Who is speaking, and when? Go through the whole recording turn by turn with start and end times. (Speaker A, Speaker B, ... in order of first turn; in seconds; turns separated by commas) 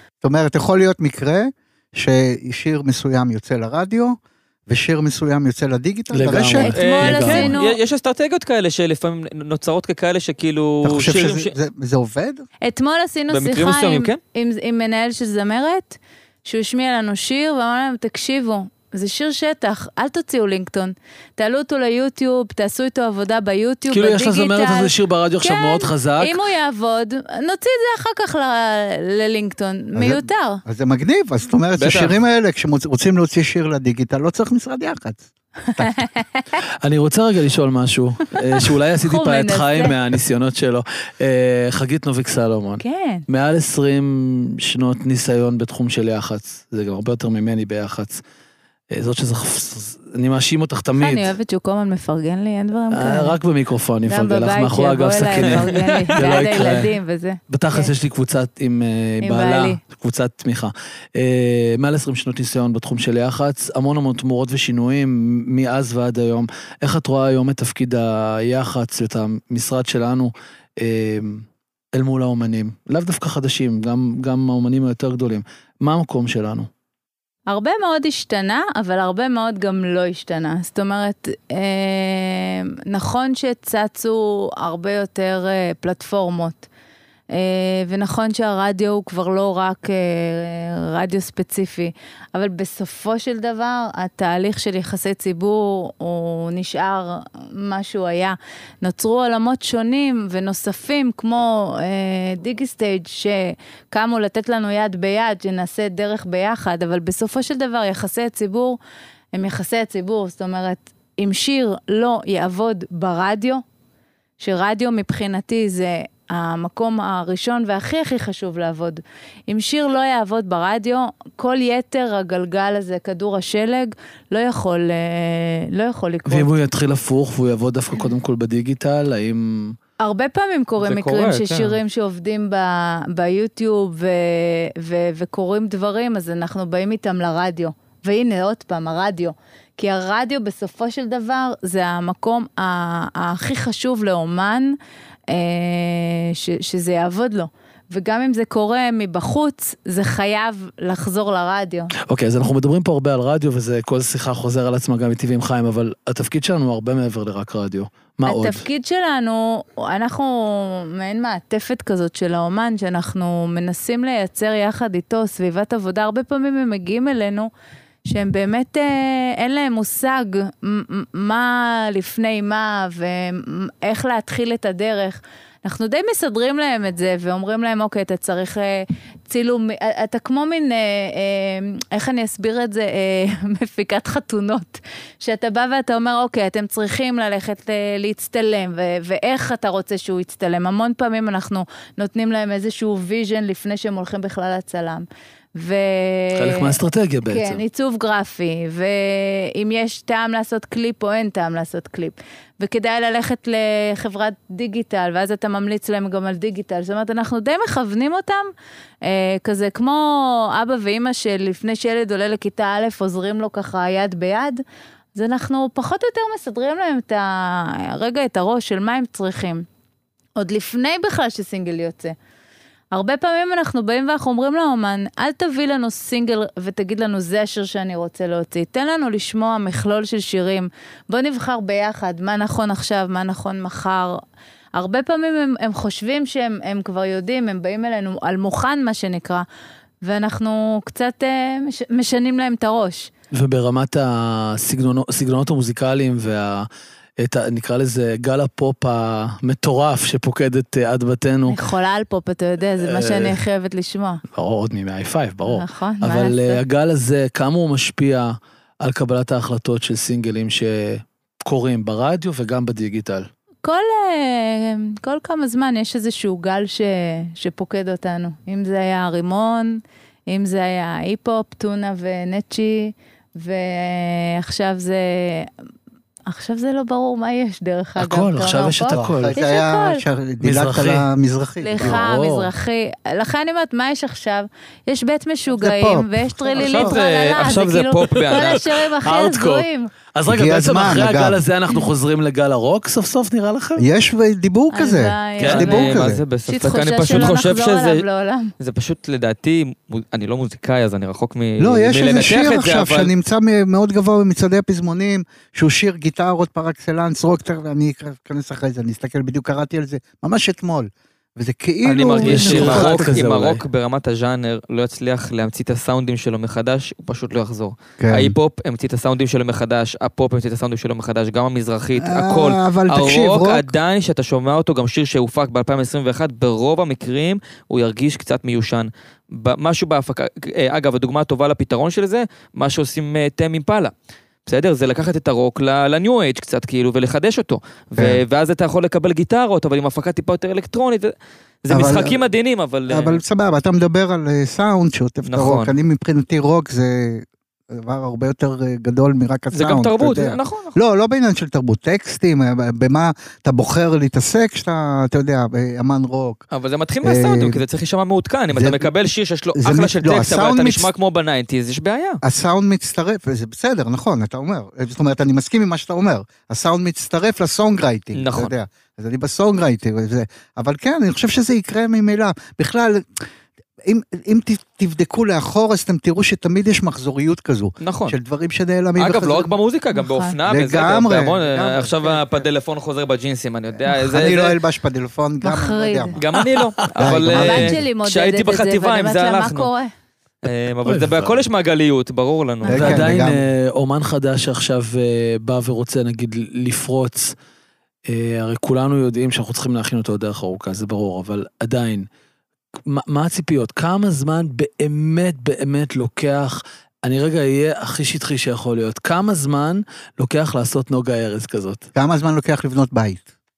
Speaker A: 0.2-7.5, Speaker B: 6.1-7.4, Speaker C: 6.3-7.8, Speaker D: 6.8-11.5, Speaker A: 10.8-12.4, Speaker C: 12.6-30.6, Speaker D: 13.3-14.2, Speaker B: 23.9-26.4, Speaker A: 29.9-36.1, Speaker D: 31.8-32.2, Speaker C: 35.8-36.4, Speaker B: 36.8-48.2, Speaker C: 39.0-40.0, Speaker C: 42.8-43.2, Speaker B: 48.9-51.3, Speaker C: 51.0-53.4, Speaker B: 52.9-56.9, Speaker C: 54.1-57.9, Speaker D: 55.4-56.4, Speaker B: 57.5-76.7, Speaker C: 59.2-59.8, Speaker C: 77.5-86.7, Speaker C: 87.3-108.8, Speaker C: 109.3-113.6, Speaker C: 114.4-126.5, Speaker B: 126.3-129.8, Speaker C: 130.0-144.8, Speaker D: 130.8-131.8, Speaker C: 145.3-151.9, Speaker B: 152.1-158.6, Speaker C: 158.3-167.5, Speaker C: 168.1-208.5, Speaker B: 196.4-197.6, Speaker C: 209.0-214.6, Speaker C: 215.2-219.7, Speaker C: 220.4-222.2, Speaker C: 222.9-234.2, Speaker C: 234.8-239.4, Speaker C: 240.0-243.1, Speaker B: 243.3-246.7, Speaker B: 247.2-251.6, Speaker C: 251.5-254.2, Speaker B: 252.8-253.4, Speaker B: 254.3-263.3, Speaker C: 255.4-256.6, Speaker C: 263.6-275.5, Speaker C: 276.3-280.0, Speaker B: 278.0-279.3, Speaker A: 278.9-282.0, Speaker B: 280.4-281.1, Speaker C: 281.6-289.9, Speaker B: 281.8-282.5, Speaker A: 285.5-287.0, Speaker D: 286.6-288.6, Speaker B: 288.1-293.9, Speaker A: 290.3-291.4, Speaker A: 293.8-296.2, Speaker C: 294.7-295.9, Speaker B: 295.4-295.7, Speaker D: 295.5-298.0, Speaker C: 296.5-298.5, Speaker D: 298.6-303.1, Speaker A: 301.6-313.0, Speaker B: 311.9-313.6, Speaker D: 312.0-333.9, Speaker A: 318.0-318.4, Speaker A: 322.0-323.7, Speaker D: 334.5-341.1, Speaker A: 338.0-338.2, Speaker D: 341.6-343.2, Speaker A: 341.7-342.2, Speaker A: 342.9-356.4, Speaker D: 345.3-345.7, Speaker D: 349.5-350.8, Speaker D: 356.5-362.2, Speaker A: 357.0-357.6, Speaker A: 358.5-358.9, Speaker A: 359.6-360.9, Speaker A: 362.2-373.2, Speaker D: 368.1-368.5, Speaker A: 373.8-379.5, Speaker D: 377.8-378.2, Speaker D: 379.0-384.6, Speaker C: 379.9-380.3, Speaker A: 380.4-382.5, Speaker A: 383.8-386.2, Speaker C: 385.4-386.1, Speaker D: 386.2-389.7, Speaker B: 386.4-386.7, Speaker A: 387.0-387.8, Speaker C: 387.3-389.9, Speaker D: 390.4-393.1, Speaker B: 390.9-391.4, Speaker C: 392.6-393.0, Speaker A: 392.7-393.4, Speaker B: 392.7-397.4, Speaker B: 398.1-402.1, Speaker B: 402.9-411.9, Speaker A: 411.9-413.3